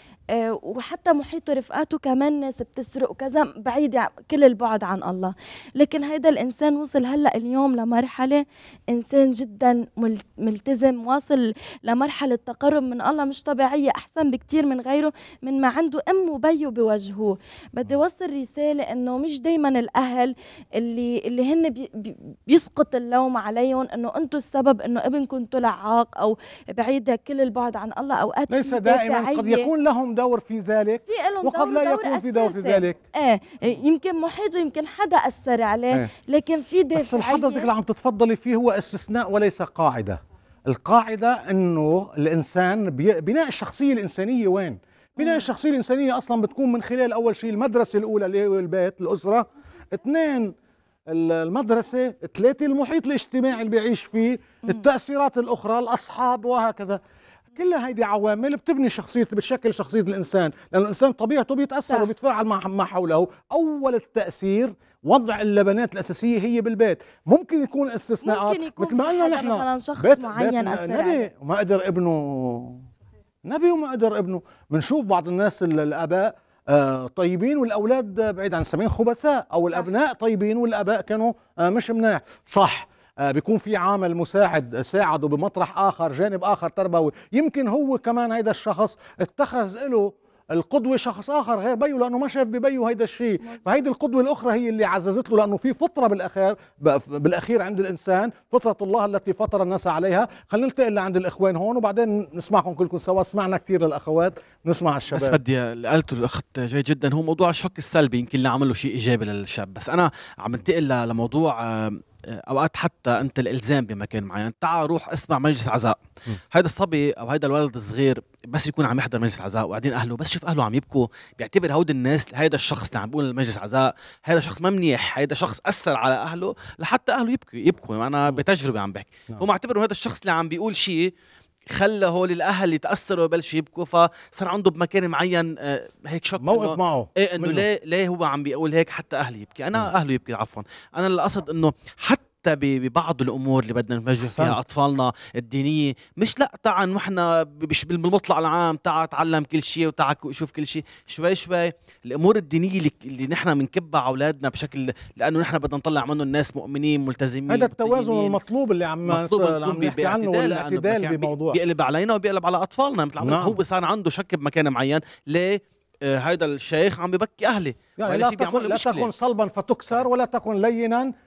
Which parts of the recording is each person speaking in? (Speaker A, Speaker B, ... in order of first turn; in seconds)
Speaker A: 0.3-29.7, 31.1-37.7, 45.2-45.4, 68.2-71.2
Speaker B: 28.5-33.0, 36.9-50.5, 51.1-57.0, 57.6-72.8, 73.5-105.4, 136.4-137.7, 144.2-144.6, 157.5-161.6, 163.2-163.6, 168.0-171.1
Speaker C: 105.1-131.1, 131.7-158.4, 159.1-169.1